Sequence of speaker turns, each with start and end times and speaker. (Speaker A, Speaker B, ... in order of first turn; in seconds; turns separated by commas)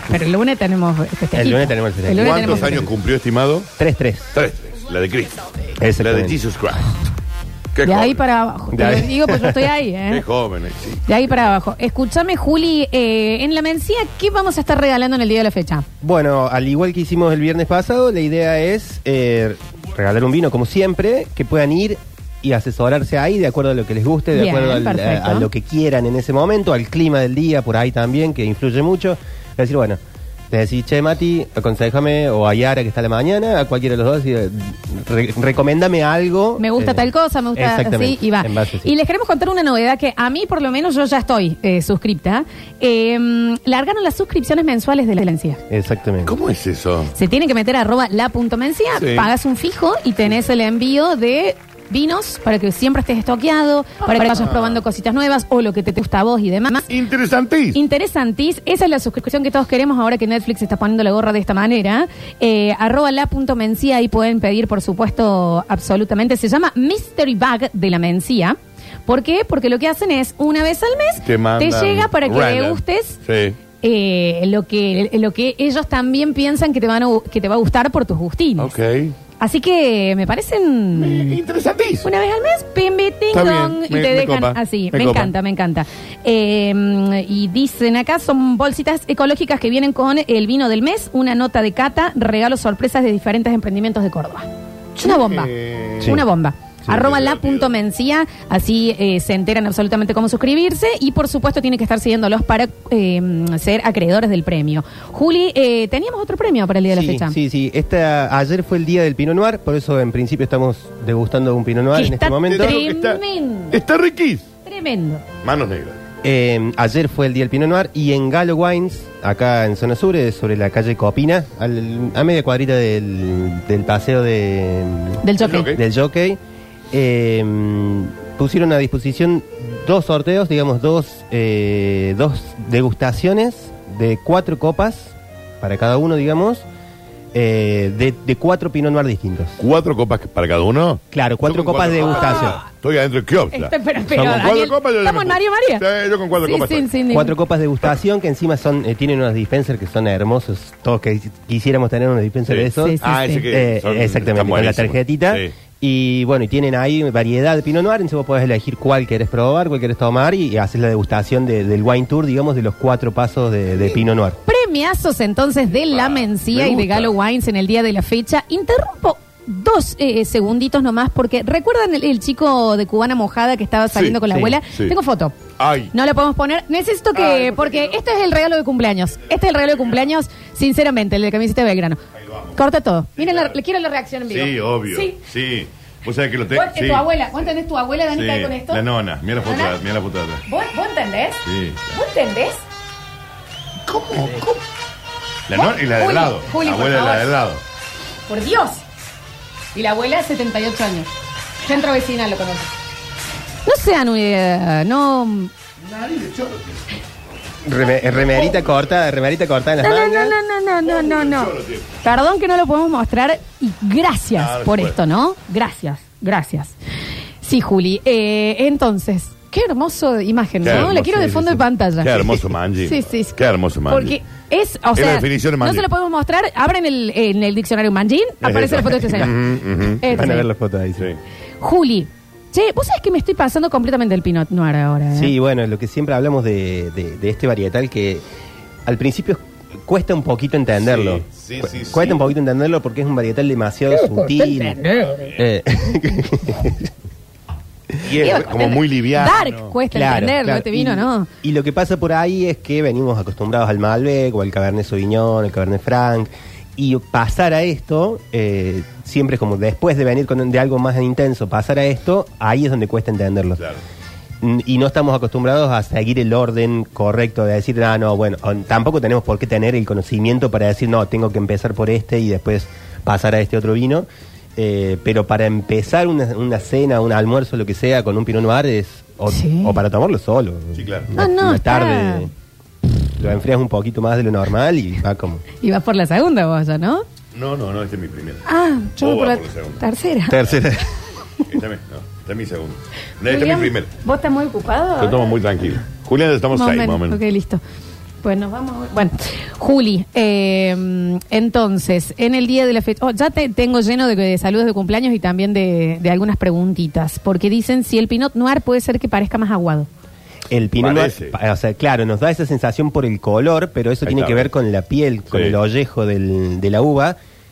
Speaker A: 0.1-2.9, Speaker B: 1.3-2.9, Speaker C: 2.1-3.7, Speaker B: 3.8-4.3, Speaker C: 4.3-5.4, Speaker B: 5.8-6.3, Speaker C: 6.0-6.9, Speaker C: 7.7-8.2, Speaker A: 7.8-10.2, Speaker B: 8.7-9.6, Speaker C: 10.1-11.0, Speaker A: 11.1-15.8, Speaker B: 16.0-30.0, Speaker A: 24.3-25.5, Speaker B: 30.5-38.9, Speaker A: 36.6-45.6, Speaker B: 45.7-46.3, Speaker C: 46.2-47.1, Speaker A: 47.1-56.9, Speaker C: 48.9-49.3, Speaker C: 54.1-54.8, Speaker C: 56.9-57.8, Speaker A: 57.7-73.2, Speaker C: 71.2-73.6, Speaker A: 73.8-78.7, Speaker C: 78.6-79.2, Speaker A: 79.4-81.4, Speaker C: 80.9-82.1, Speaker A: 82.0-107.3, Speaker C: 83.3-85.3, Speaker C: 95.0-96.2, Speaker C: 96.9-97.7, Speaker B: 106.9-112.7, Speaker A: 111.9-113.8, Speaker C: 112.5-114.4, Speaker A: 114.6-115.2, Speaker C: 115.4-116.0, Speaker B: 116.2-125.2, Speaker A: 125.2-125.7, Speaker C: 125.4-125.8, Speaker B: 125.7-126.4, Speaker B: 126.9-136.6, Speaker B: 137.3-139.5, Speaker C: 139.6-146.9, Speaker B: 141.1-142.6, Speaker A: 143.5-145.8, Speaker B: 144.1-144.4, Speaker A: 146.4-147.3, Speaker B: 147.1-164.4, Speaker C: 152.5-155.5, Speaker A: 152.8-153.4, Speaker A: 164.4-175.3, Speaker C: 165.9-167.1, Speaker C: 173.9-174.9, Speaker B: 174.3-174.6, Speaker C: 175.6-175.9, Speaker A: 175.9-182.0, Speaker C: 177.2-177.9, Speaker A: 182.6-185.2, Speaker C: 183.2-183.5, Speaker C: 184.2-187.1, Speaker A: 186.5-188.8, Speaker C: 188.1-190.4, Speaker A: 189.4-189.8, Speaker A: 190.5-192.6, Speaker C: 191.4-191.8, Speaker C: 193.9-194.4, Speaker C: 195.5-197.6, Speaker A: 195.5-197.3, Speaker A: 198.3-198.8, Speaker A: 199.7-201.1, Speaker A: 201.6-202.7, Speaker A: 203.6-205.5, Speaker C: 205.8-206.8, Speaker B: 207.7-210.3, Speaker A: 209.8-216.7, Speaker C: 210.8-211.8, Speaker C: 214.3-215.0, Speaker A: 217.4-222.3, Speaker C: 220.6-220.9, Speaker B: 220.7-221.6, Speaker C: 222.0-224.2, Speaker A: 222.8-223.4, Speaker A: 223.9-229.3, Speaker C: 224.9-225.9, Speaker C: 228.4-230.2, Speaker A: 230.0-230.4, Speaker B: 230.1-231.1, Speaker A: 231.6-235.3, Speaker B: 235.1-238.2, Speaker B: 238.8-244.8, Speaker C: 240.7-242.3, Speaker A: 244.0-245.3, Speaker B: 245.4-246.9, Speaker C: 248.1-249.8, Speaker A: 248.2-251.3, Speaker B: 249.9-263.6, Speaker B: 264.4-282.3, Speaker A: 279.3-279.8, Speaker C: 280.8-281.1, Speaker A: 281.1-282.3, Speaker B: 283.2-285.4, Speaker A: 285.6-287.0, Speaker C: 287.3-288.4, Speaker A: 288.4-290.4, Speaker C: 289.0-289.8, Speaker B: 290.3-290.8, Speaker C: 291.5-293.9, Speaker A: 293.2-295.3, Speaker C: 295.0-297.2, Speaker A: 296.5-297.6, Speaker A: 298.2-309.9, Speaker B: 310.5-317.1, Speaker C: 310.8-311.3, Speaker C: 314.1-314.5